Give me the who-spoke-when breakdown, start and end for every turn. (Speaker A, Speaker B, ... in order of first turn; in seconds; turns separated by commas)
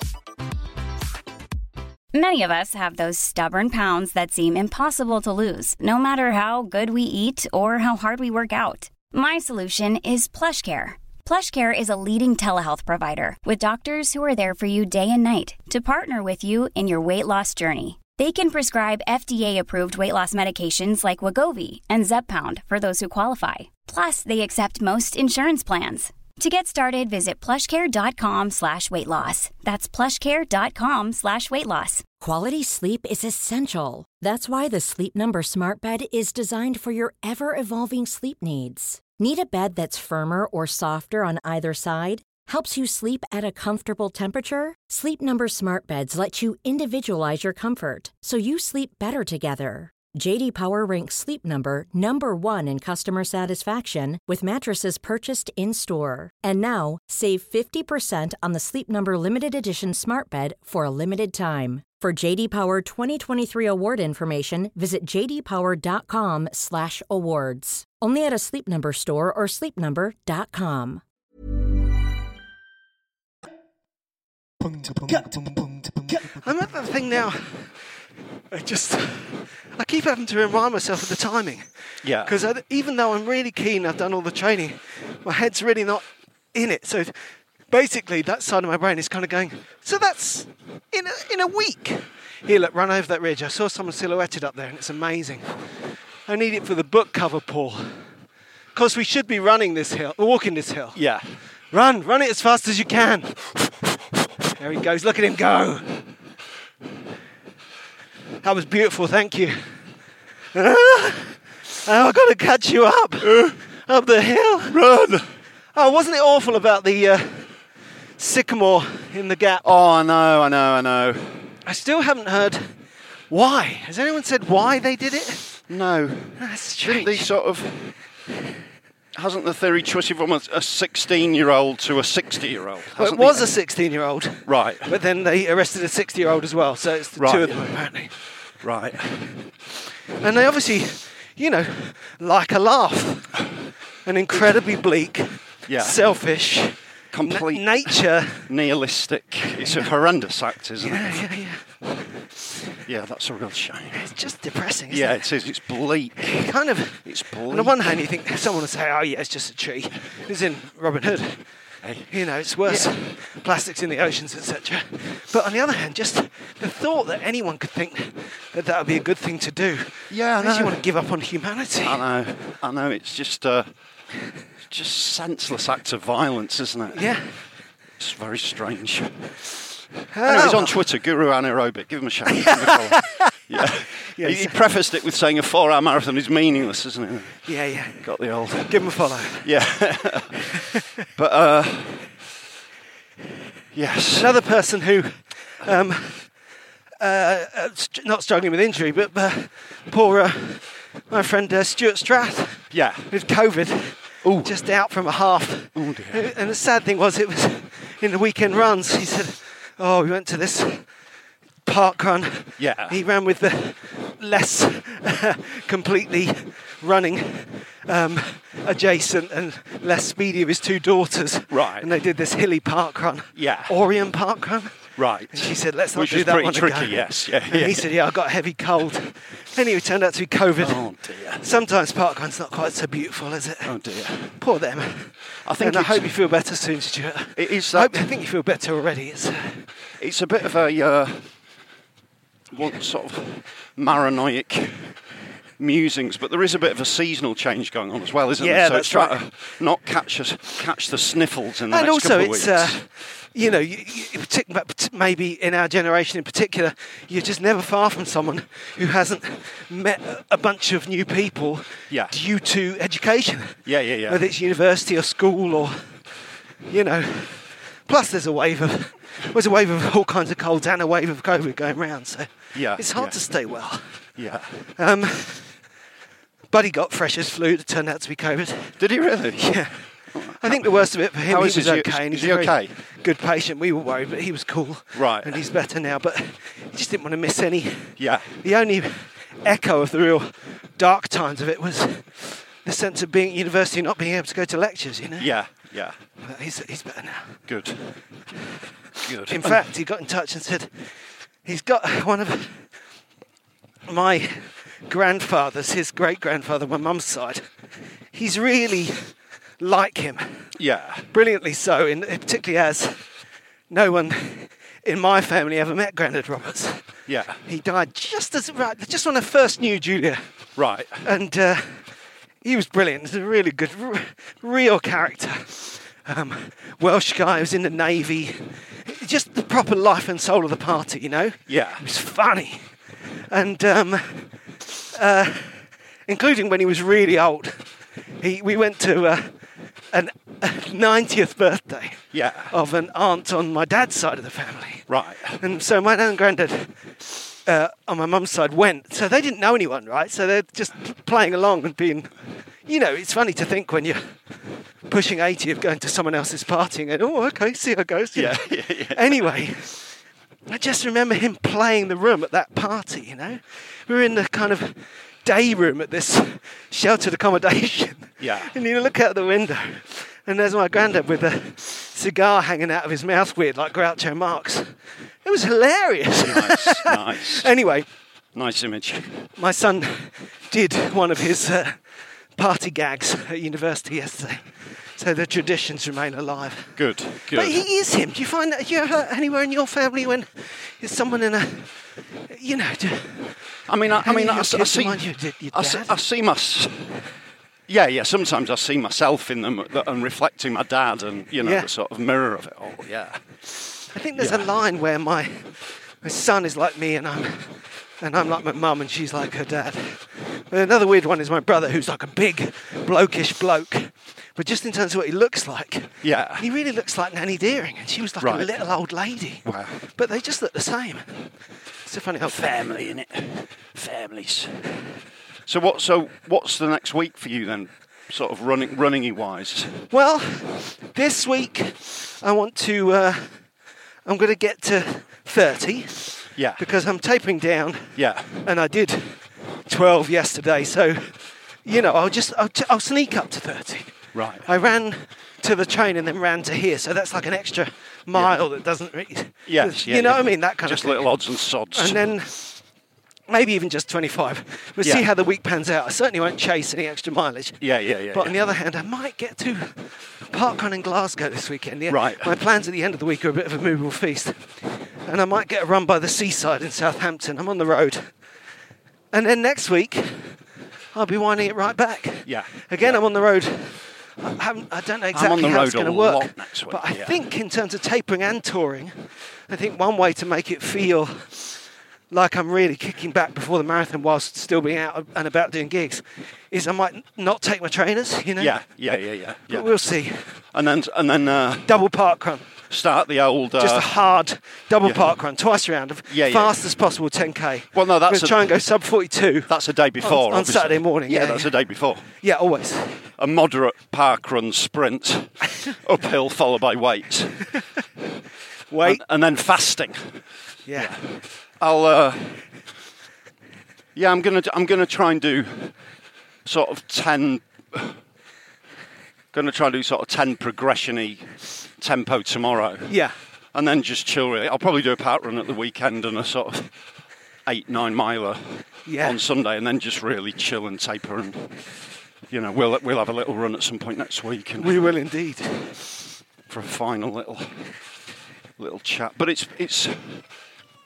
Speaker A: 2.1-32.1, Speaker B: 32.2-71.0, Speaker C: 76.1-77.7, Speaker C: 78.5-81.7, Speaker D: 82.0-82.3, Speaker C: 82.2-87.2, Speaker C: 87.7-95.5, Speaker C: 96.3-98.0, Speaker C: 98.8-101.0, Speaker D: 101.0-101.3, Speaker C: 101.7-103.8, Speaker C: 104.5-106.0, Speaker C: 108.4-109.6, Speaker C: 110.5-114.8, Speaker D: 113.2-113.6, Speaker D: 114.7-115.3, Speaker C: 115.8-117.6, Speaker C: 118.2-119.7, Speaker D: 119.6-121.5, Speaker C: 121.7-122.7, Speaker C: 123.3-125.5, Speaker D: 125.7-127.9, Speaker C: 126.4-127.3, Speaker D: 129.1-133.5, Speaker C: 132.9-138.1, Speaker D: 134.4-134.9, Speaker D: 137.2-137.7, Speaker D: 138.6-139.2, Speaker C: 140.2-143.4, Speaker C: 144.1-148.5, Speaker D: 145.7-146.0, Speaker D: 147.1-151.3, Speaker C: 149.6-149.9, Speaker C: 150.8-151.7, Speaker D: 152.9-154.1, Speaker C: 153.9-155.3, Speaker D: 154.9-156.5, Speaker C: 156.2-161.4, Speaker D: 157.0-158.1, Speaker D: 161.8-162.1, Speaker C: 162.1-172.0, Speaker D: 162.6-162.9, Speaker D: 170.1-170.8, Speaker D: 171.8-173.7, Speaker D: 174.7-177.2, Speaker C: 176.9-177.3, Speaker D: 178.0-179.7, Speaker C: 180.1-180.8, Speaker D: 180.2-187.5, Speaker C: 182.3-184.6, Speaker C: 187.5-188.1, Speaker D: 188.0-190.6, Speaker C: 188.6-189.5, Speaker C: 190.4-191.0, Speaker D: 191.2-192.1, Speaker D: 193.7-194.3, Speaker C: 194.2-196.3, Speaker C: 197.0-210.9, Speaker D: 202.7-203.1, Speaker D: 204.2-204.6, Speaker D: 205.8-206.3, Speaker C: 211.7-230.8, Speaker D: 212.6-213.0, Speaker D: 221.5-221.9, Speaker D: 223.3-223.8, Speaker D: 225.0-227.9, Speaker D: 230.6-231.5, Speaker C: 231.4-233.7, Speaker D: 233.7-234.4, Speaker C: 234.3-239.7, Speaker D: 235.4-236.1, Speaker D: 237.4-238.0, Speaker D: 240.0-241.3, Speaker D: 242.5-245.0, Speaker D: 245.6-252.8, Speaker C: 248.4-249.2, Speaker C: 251.7-265.8, Speaker D: 263.7-264.2, Speaker C: 266.7-273.9, Speaker D: 272.5-273.2, Speaker D: 274.2-274.6, Speaker C: 274.8-275.5, Speaker C: 276.5-278.8, Speaker D: 278.8-282.8, Speaker C: 279.4-279.8, Speaker C: 280.3-295.3, Speaker D: 284.9-285.4, Speaker D: 288.0-288.3, Speaker D: 295.2-296.0, Speaker C: 296.2-297.4, Speaker D: 297.5-297.9, Speaker D: 299.0-299.6, Speaker C: 299.2-300.7, Speaker C: 301.4-302.7, Speaker C: 303.9-307.4, Speaker C: 308.1-309.1, Speaker C: 309.6-310.5, Speaker D: 310.6-311.1, Speaker C: 311.1-313.0, Speaker C: 313.7-316.8, Speaker D: 317.1-317.4, Speaker C: 317.4-320.2, Speaker D: 320.6-321.0, Speaker C: 321.0-321.9, Speaker C: 322.4-332.7, Speaker D: 331.5-331.8, Speaker C: 333.3-334.3, Speaker C: 334.9-337.7, Speaker C: 338.2-339.3, Speaker C: 339.9-346.8, Speaker D: 342.1-342.5, Speaker D: 344.9-345.4, Speaker C: 347.4-352.1, Speaker C: 352.7-354.0, Speaker C: 354.9-359.9, Speaker D: 358.1-359.3, Speaker C: 360.5-374.7, Speaker D: 368.2-368.5, Speaker C: 375.2-377.9, Speaker D: 376.2-377.5, Speaker D: 378.4-379.2, Speaker C: 379.4-381.8, Speaker C: 382.4-396.0, Speaker D: 386.8-387.6, Speaker D: 393.7-397.0, Speaker D: 397.7-403.2, Speaker C: 401.4-401.7, Speaker C: 403.9-421.3, Speaker D: 404.2-404.5, Speaker D: 416.0-416.5, Speaker D: 418.2-418.6, Speaker D: 419.4-419.8, Speaker C: 421.9-422.7, Speaker D: 422.2-424.6, Speaker D: 425.5-429.9, Speaker C: 429.9-433.4, Speaker C: 434.1-451.1, Speaker D: 436.4-436.6, Speaker D: 438.0-438.3, Speaker D: 444.1-444.5, Speaker D: 448.1-448.4, Speaker D: 449.5-452.1, Speaker C: 451.7-452.6, Speaker C: 453.3-464.5, Speaker D: 454.8-455.1, Speaker D: 457.6-458.5, Speaker D: 461.9-462.3, Speaker C: 465.1-468.1, Speaker C: 469.1-470.4, Speaker C: 470.9-478.9, Speaker D: 472.3-473.0, Speaker D: 475.1-477.2, Speaker C: 479.5-481.6, Speaker C: 482.1-488.6, Speaker D: 488.4-489.8, Speaker C: 489.5-490.4, Speaker D: 490.5-491.8, Speaker C: 491.7-492.5, Speaker D: 492.7-493.9, Speaker C: 493.6-501.5, Speaker D: 494.8-495.1, Speaker D: 496.1-496.6, Speaker D: 497.7-498.6, Speaker D: 499.5-502.1, Speaker C: 502.1-503.1, Speaker D: 503.2-507.4, Speaker C: 508.7-509.0, Speaker D: 508.8-510.1, Speaker C: 510.7-511.0, Speaker D: 510.8-511.1, Speaker D: 511.6-512.4, Speaker D: 514.0-515.8, Speaker D: 516.5-518.0, Speaker D: 519.3-522.9, Speaker C: 522.9-523.1, Speaker D: 523.5-526.7, Speaker D: 527.5-531.5, Speaker C: 528.9-529.2, Speaker D: 532.3-534.8, Speaker C: 534.6-535.9, Speaker D: 536.5-537.6, Speaker D: 538.6-540.2